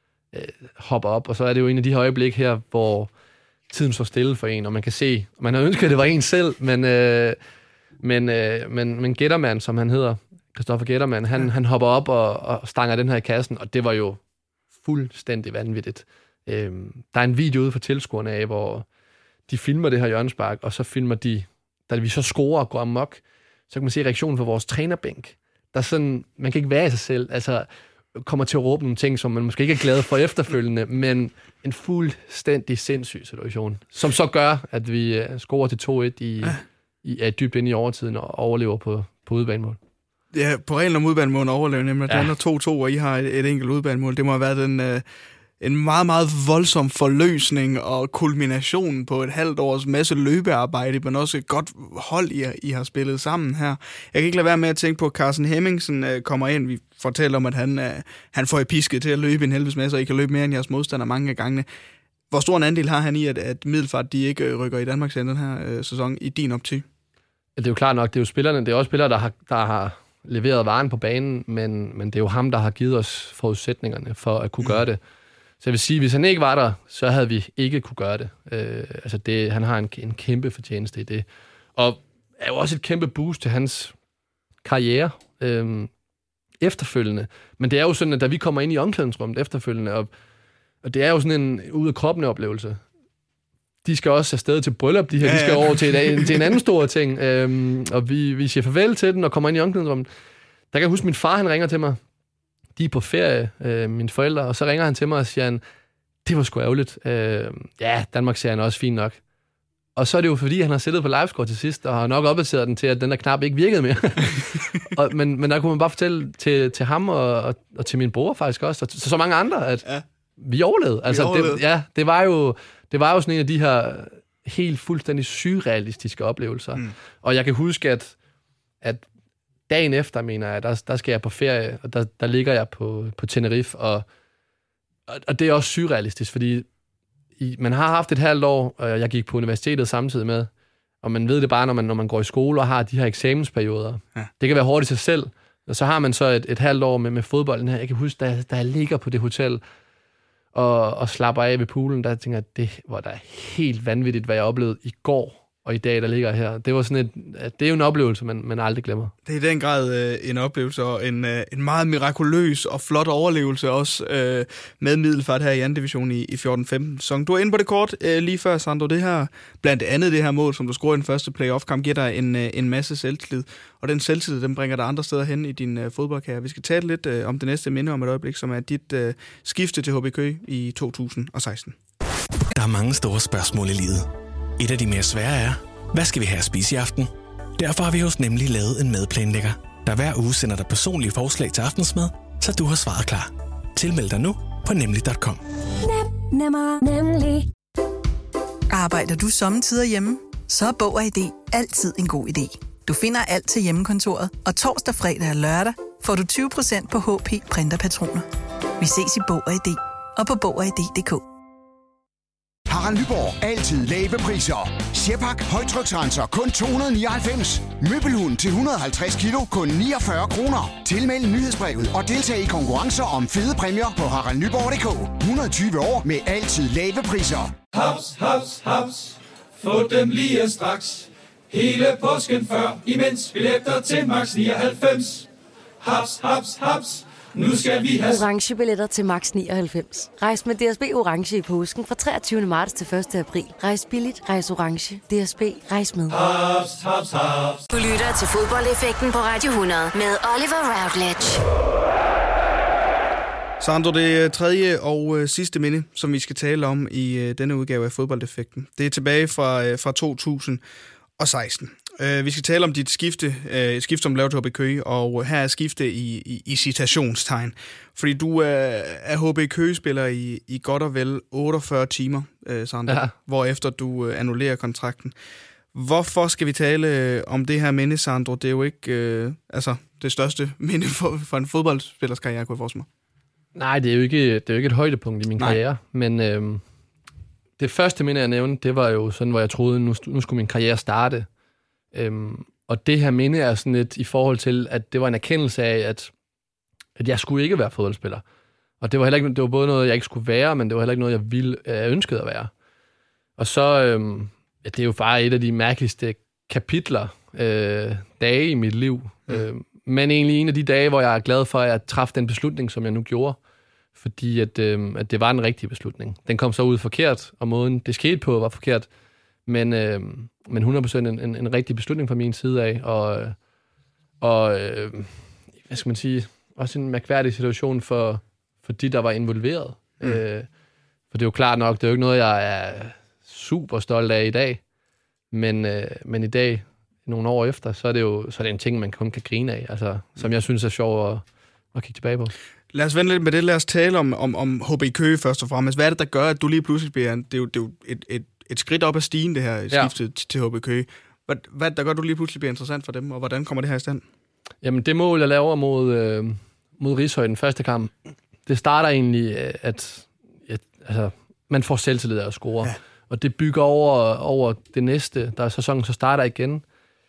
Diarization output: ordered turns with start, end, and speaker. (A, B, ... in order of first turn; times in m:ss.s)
0:00.3-0:03.1 A
0:03.7-0:07.4 A
0:08.0-0:14.2 A
0:14.8-0:18.9 A
0:19.5-0:39.8 A
0:40.3-0:45.0 B
0:45.6-1:01.7 B
1:02.3-1:06.9 B
1:07.6-1:15.0 A
1:15.6-1:21.2 A
1:21.8-1:24.0 A
1:24.6-1:25.9 A
1:26.6-1:30.1 A
1:30.8-1:32.8 A
1:33.8-1:40.1 A
1:35.2-1:36.6 B
1:40.7-1:42.0 A
1:42.8-1:45.6 A
1:46.2-1:49.2 A
1:50.0-1:59.9 A
2:00.4-2:08.2 A
2:01.1-2:01.6 B
2:09.7-2:14.0 A
2:15.1-2:16.7 A
2:17.4-2:20.5 A
2:21.0-2:29.6 A
2:30.5-2:39.1 A
2:39.3-3:01.8 B
3:02.5-3:04.1 C
3:04.6-3:15.4 C
3:18.7-3:28.3 D
3:28.8-3:31.2 D
3:32.7-3:47.5 E
3:47.8-3:55.3 F
3:55.8-3:58.2 F
3:58.0-4:06.2 G
4:06.1-4:07.6 F
4:07.7-4:11.4 H
4:13.6-4:20.6 B
4:21.2-4:35.2 B
4:32.9-4:33.1 A
4:35.7-4:42.9 B
4:43.6-4:46.6 A
4:47.6-4:51.3 A
4:51.9-4:56.1 A
4:57.0-4:58.2 A
4:58.8-5:02.5 A
5:03.4-5:13.4 A
5:14.0-5:18.9 A
5:19.5-5:23.4 A
5:24.2-5:25.1 A
5:25.7-5:30.5 A
5:31.1-5:34.6 A
5:35.3-5:42.3 A
5:42.7-5:54.0 B
5:54.6-5:57.9 A
5:58.5-6:06.6 A